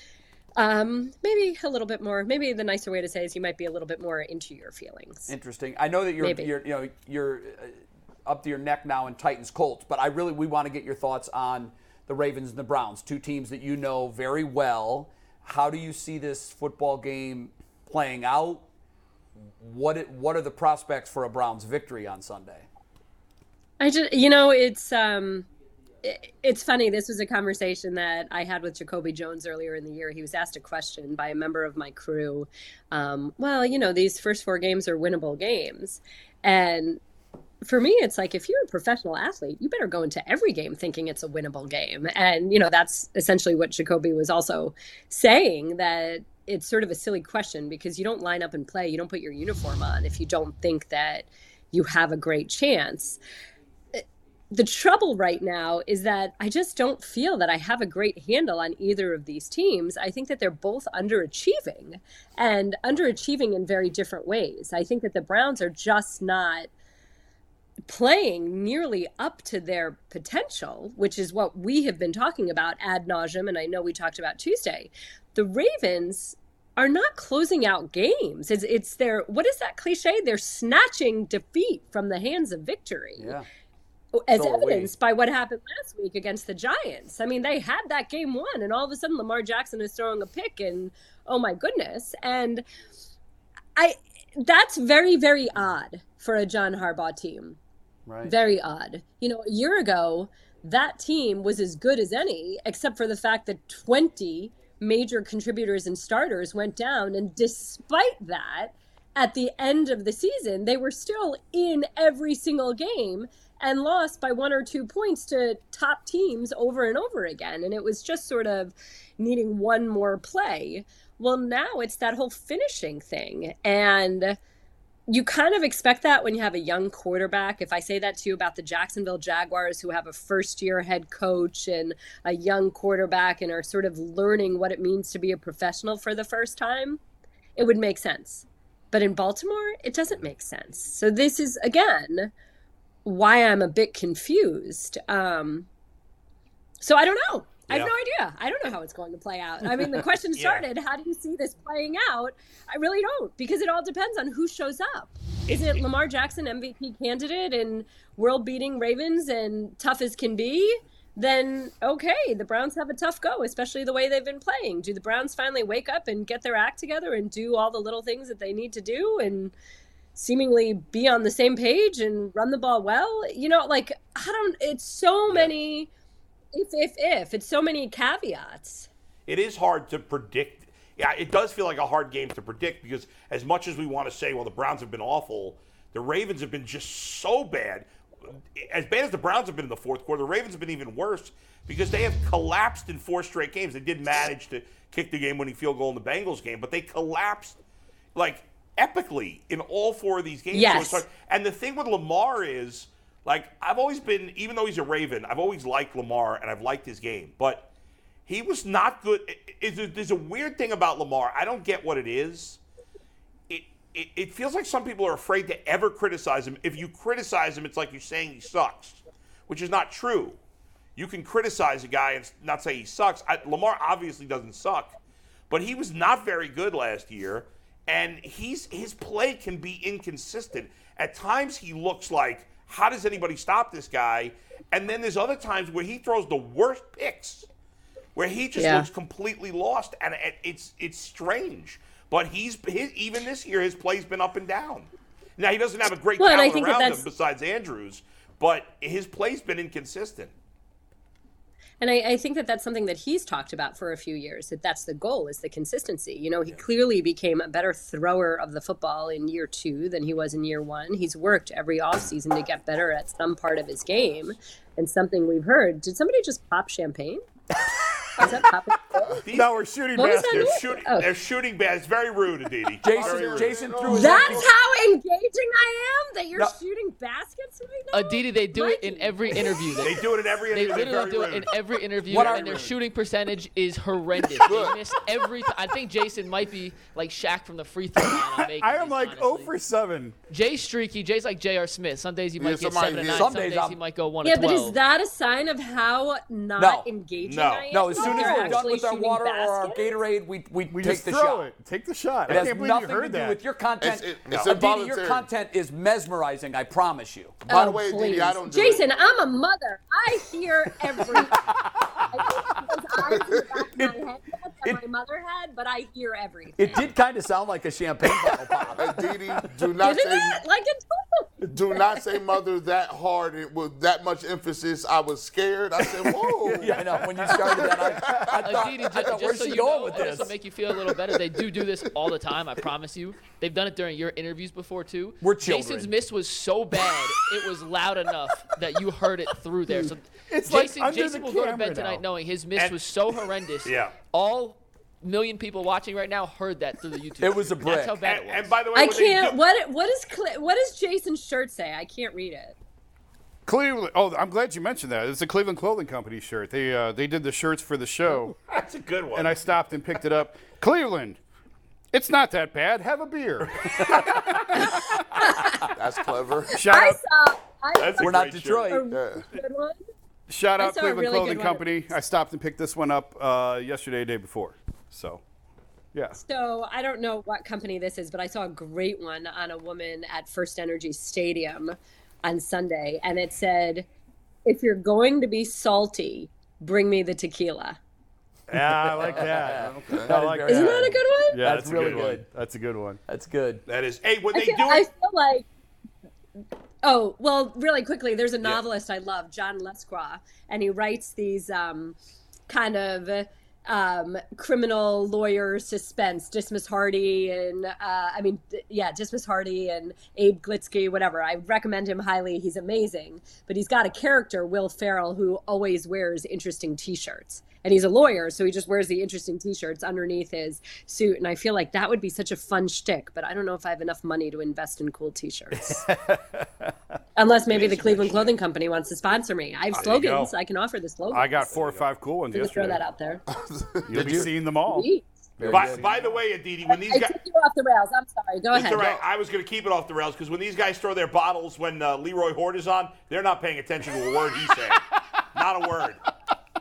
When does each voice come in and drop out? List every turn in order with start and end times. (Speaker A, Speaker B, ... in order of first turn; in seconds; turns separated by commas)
Speaker A: 0.6-5.3, Speaker B: 5.3-18.6, Speaker A: 6.2-6.5, Speaker B: 19.6-22.6, Speaker A: 23.8-25.5, Speaker A: 26.0-37.0, Speaker A: 37.6-53.2, Speaker A: 53.9-66.7, Speaker A: 67.9-83.4, Speaker B: 83.2-83.5, Speaker A: 84.1-92.6, Speaker B: 84.3-84.9, Speaker A: 93.8-97.6, Speaker B: 98.1-98.3, Speaker A: 98.2-124.4, Speaker A: 125.1-137.0, Speaker A: 137.6-142.3, Speaker A: 143.0-145.7, Speaker A: 146.8-169.5, Speaker C: 150.3-150.6, Speaker C: 155.5-155.8, Speaker A: 170.2-175.9, Speaker A: 176.5-178.9, Speaker C: 179.3-187.9, Speaker C: 188.5-197.6, Speaker C: 198.1-207.7, Speaker A: 200.5-201.1, Speaker C: 208.2-212.6, Speaker C: 213.5-220.4, Speaker C: 220.9-224.9, Speaker C: 225.5-237.5, Speaker C: 238.2-250.3, Speaker A: 238.6-238.9, Speaker A: 246.2-247.0, Speaker A: 251.8-267.2, Speaker A: 268.1-269.2, Speaker C: 269.2-273.7, Speaker D: 269.3-270.6, Speaker A: 269.9-271.1, Speaker B: 272.8-274.5, Speaker E: 272.9-274.5, Speaker A: 273.9-279.8, Speaker F: 277.9-289.5, Speaker C: 279.8-281.5, Speaker B: 282.1-282.7, Speaker E: 284.4-284.8, Speaker D: 288.1-290.1, Speaker F: 290.3-294.8, Speaker E: 292.4-293.3, Speaker B: 293.1-293.8, Speaker A: 294.2-299.9, Speaker B: 296.6-296.9, Speaker C: 297.2-297.7, Speaker B: 297.7-301.5, Speaker D: 297.9-298.6, Speaker D: 300.7-303.4, Speaker B: 302.2-307.4, Speaker E: 303.8-305.2, Speaker E: 307.4-308.8, Speaker A: 307.5-311.4, Speaker B: 310.9-312.7, Speaker A: 312.0-316.7, Speaker E: 313.1-313.5, Speaker B: 313.7-314.0, Speaker B: 316.6-319.5, Speaker E: 318.7-320.4, Speaker A: 319.8-322.0, Speaker E: 321.4-329.1, Speaker B: 325.9-330.3, Speaker F: 328.4-348.6, Speaker B: 335.2-335.9, Speaker D: 340.3-342.0, Speaker C: 343.6-343.9, Speaker B: 347.2-348.0, Speaker C: 348.0-349.4, Speaker A: 348.7-352.6, Speaker D: 353.4-358.3, Speaker C: 358.5-359.4, Speaker D: 359.1-361.2, Speaker D: 361.9-365.3, Speaker C: 363.4-364.4, Speaker A: 364.6-365.7, Speaker E: 365.7-366.6, Speaker D: 366.5-367.0, Speaker A: 366.6-369.8, Speaker C: 367.8-368.8, Speaker B: 368.0-368.9, Speaker E: 368.9-369.2, Speaker D: 370.3-375.2, Speaker A: 370.6-371.6, Speaker D: 375.9-376.2, Speaker A: 376.1-383.9, Speaker A: 384.4-387.8, Speaker D: 388.5-393.0, Speaker B: 388.5-392.2, Speaker E: 389.0-390.1, Speaker A: 390.4-391.4, Speaker B: 393.1-393.6, Speaker C: 393.7-394.9, Speaker A: 394.3-395.5, Speaker A: 396.8-402.0, Speaker A: 402.5-425.8, Speaker D: 425.7-426.7, Speaker A: 427.1-431.5, Speaker C: 427.4-428.3, Speaker C: 429.7-430.3, Speaker D: 431.1-432.8, Speaker C: 431.5-431.8, Speaker A: 432.3-433.2, Speaker E: 433.3-434.3, Speaker D: 433.9-436.0, Speaker B: 433.9-434.3, Speaker A: 434.6-435.1, Speaker B: 435.4-435.9, Speaker C: 435.5-437.1, Speaker A: 436.7-438.9, Speaker C: 438.5-446.0, Speaker E: 438.8-439.0